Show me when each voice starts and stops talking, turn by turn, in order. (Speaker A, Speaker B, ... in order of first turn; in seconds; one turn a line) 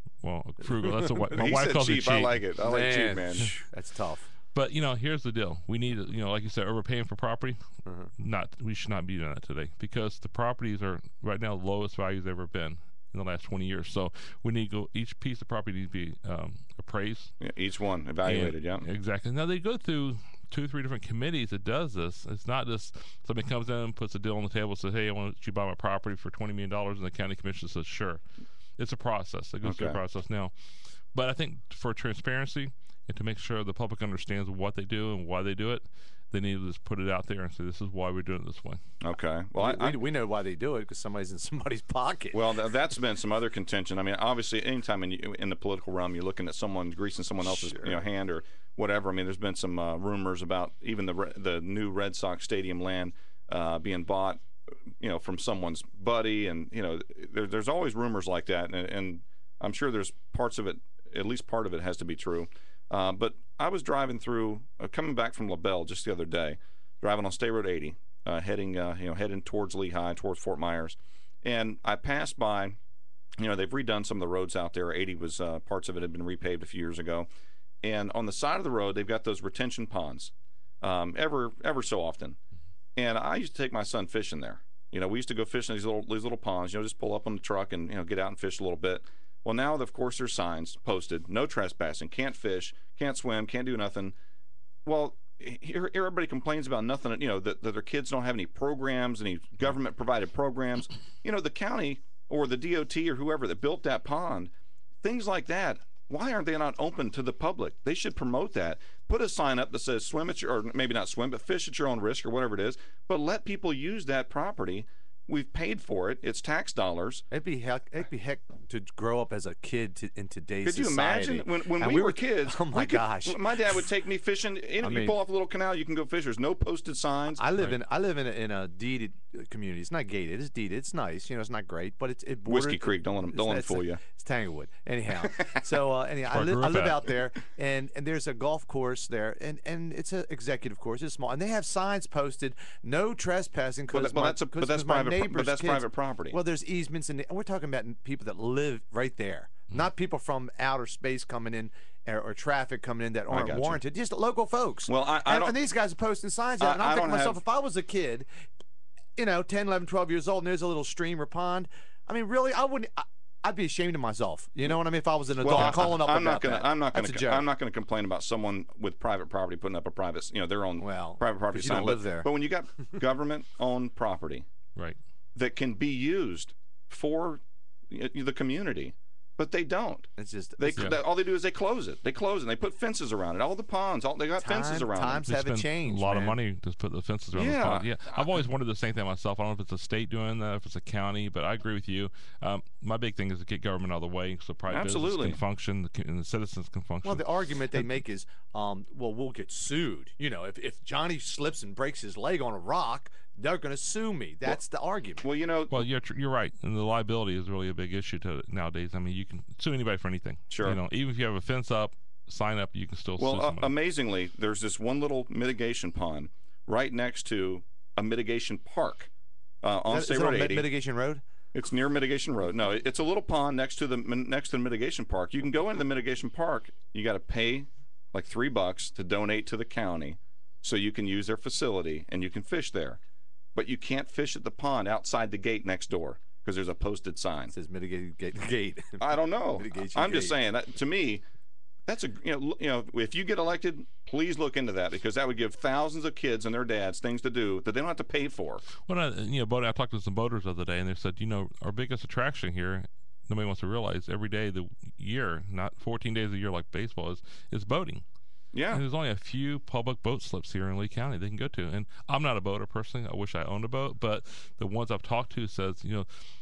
Speaker A: 0.2-2.4
Speaker B: 0.8-1.1
Speaker C: 1.3-3.5
Speaker B: 2.6-4.3
Speaker A: 4.5-7.6
Speaker B: 7.8-8.1
Speaker A: 8.2-17.3
Speaker C: 17.4-18.9
Speaker A: 18.2-28.2
Speaker A: 28.8-30.5
Speaker C: 29.6-30.0
Speaker A: 31.1-38.8
Speaker C: 39.0-40.0
Speaker B: 39.6-42.6
Speaker C: 42.3-54.4
Speaker B: 47.5-48.0
Speaker C: 55.0-72.8
Speaker C: 73.4-77.3
Speaker C: 77.8-82.4
Speaker C: 83.0-94.2
Speaker C: 94.8-117.2
Speaker B: 117.3-123.8
Speaker C: 120.6-127.4
Speaker B: 124.8-125.2
Speaker B: 127.4-158.3
Speaker C: 132.5-134.0
Speaker A: 136.3-137.0
Speaker C: 143.9-146.4
Speaker C: 153.3-153.8
Speaker C: 154.9-155.6
Speaker C: 156.6-157.4
Speaker B: 159.2-167.5
Speaker C: 165.4-174.5
Speaker B: 170.8-172.3
Speaker C: 175.3-185.2
Speaker B: 180.2-181.0
Speaker B: 184.4-186.4
Speaker A: 185.2-197.8
Speaker C: 187.3-188.4
Speaker C: 194.7-195.4
Speaker B: 197.0-205.2
Speaker C: 205.2-205.8
Speaker A: 205.7-213.7
Speaker C: 210.5-210.8
Speaker C: 213.2-219.1
Speaker C: 219.6-220.7
Speaker B: 219.9-221.2
Speaker C: 221.5-233.0
Speaker C: 233.6-237.5
Speaker B: 237.5-240.4
Speaker C: 239.0-241.2
Speaker C: 241.9-248.7
Speaker A: 248.8-258.0
Speaker C: 258.5-258.8
Speaker A: 258.7-266.1